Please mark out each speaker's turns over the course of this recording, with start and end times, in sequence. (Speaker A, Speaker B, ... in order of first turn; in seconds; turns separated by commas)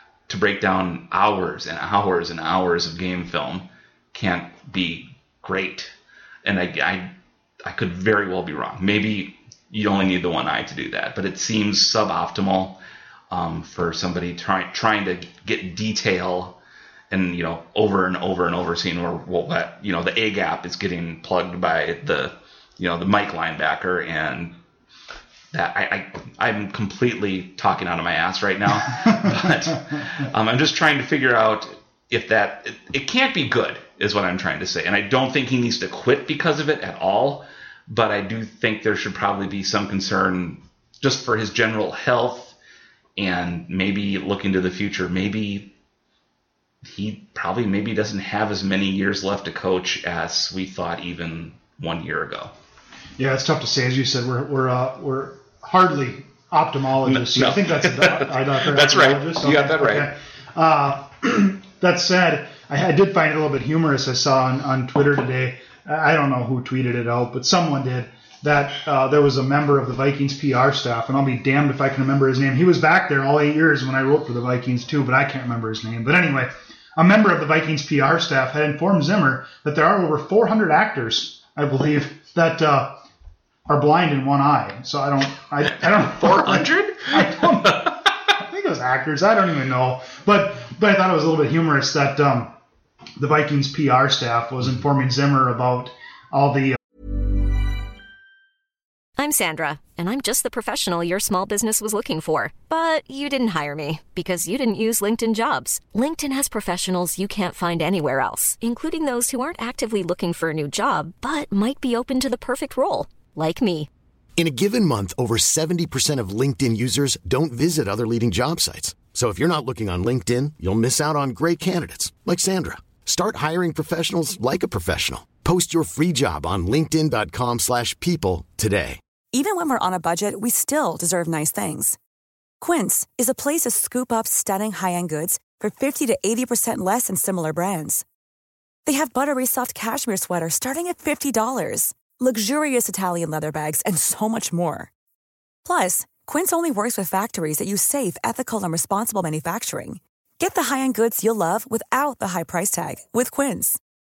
Speaker A: 0.3-5.9, Speaker A: 6.4-16.6, Speaker A: 17.1-24.6, Speaker A: 25.5-42.6, Speaker A: 43.2-45.7, Speaker A: 46.8-52.5, Speaker B: 53.2-83.0, Speaker A: 57.0-60.1, Speaker B: 83.7-92.5, Speaker A: 85.8-88.0, Speaker B: 93.2-96.8, Speaker C: 99.2-113.9, Speaker D: 114.4-129.0, Speaker E: 129.3-132.0, Speaker E: 132.6-138.1, Speaker E: 138.9-144.9, Speaker E: 145.7-153.8